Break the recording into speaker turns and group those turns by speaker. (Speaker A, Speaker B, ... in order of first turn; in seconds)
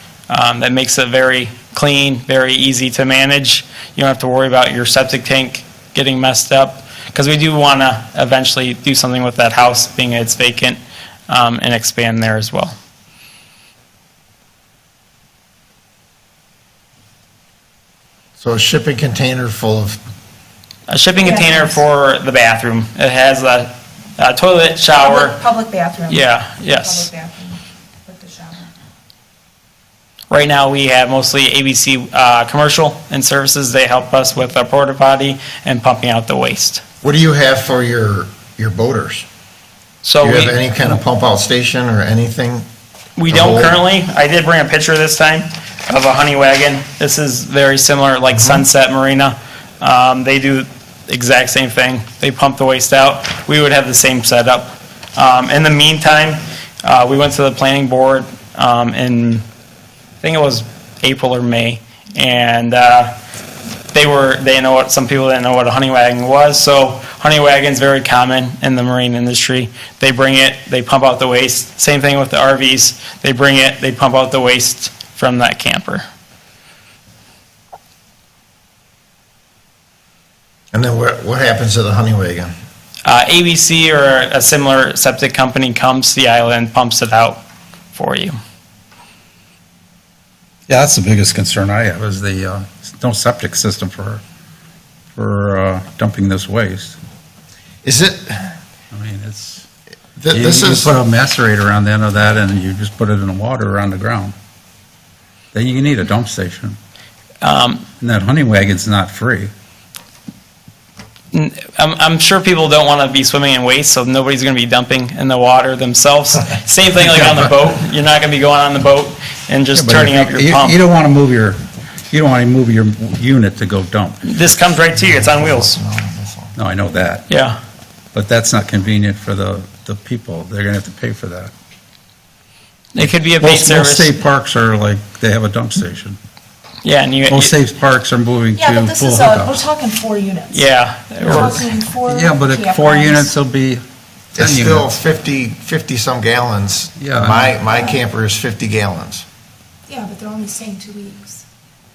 Speaker A: 0.3-12.7, 20.9-25.4, 26.1-27.1, 30.3-36.8, 40.0-40.6, 43.2-59.4, 60.2-63.1, 63.9-76.0, 83.1-87.4, 87.9-88.4, 107.4-107.9, 111.3-120.8, 124.2-125.8, 127.3-127.6, 132.9-134.2, 136.8-137.5, 140.5-141.6
Speaker B: 18.4-20.0, 37.0-39.3, 40.2-42.7, 43.3-43.8, 80.7-82.5, 97.8-98.5, 100.2-101.0, 125.0-126.5, 144.4-149.2
Speaker C: 21.2-21.8, 25.0-28.7, 138.5-143.4, 147.7-148.1, 149.9-151.4
Speaker D: 90.7-94.2, 95.2-97.0, 98.9-99.7, 100.3-104.3, 105.5-106.8, 108.0-109.5, 119.7-124.7, 126.6-127.3, 128.1-131.5, 133.0-136.2, 137.3-139.6, 141.2-143.8, 144.4-145.0, 147.0-147.6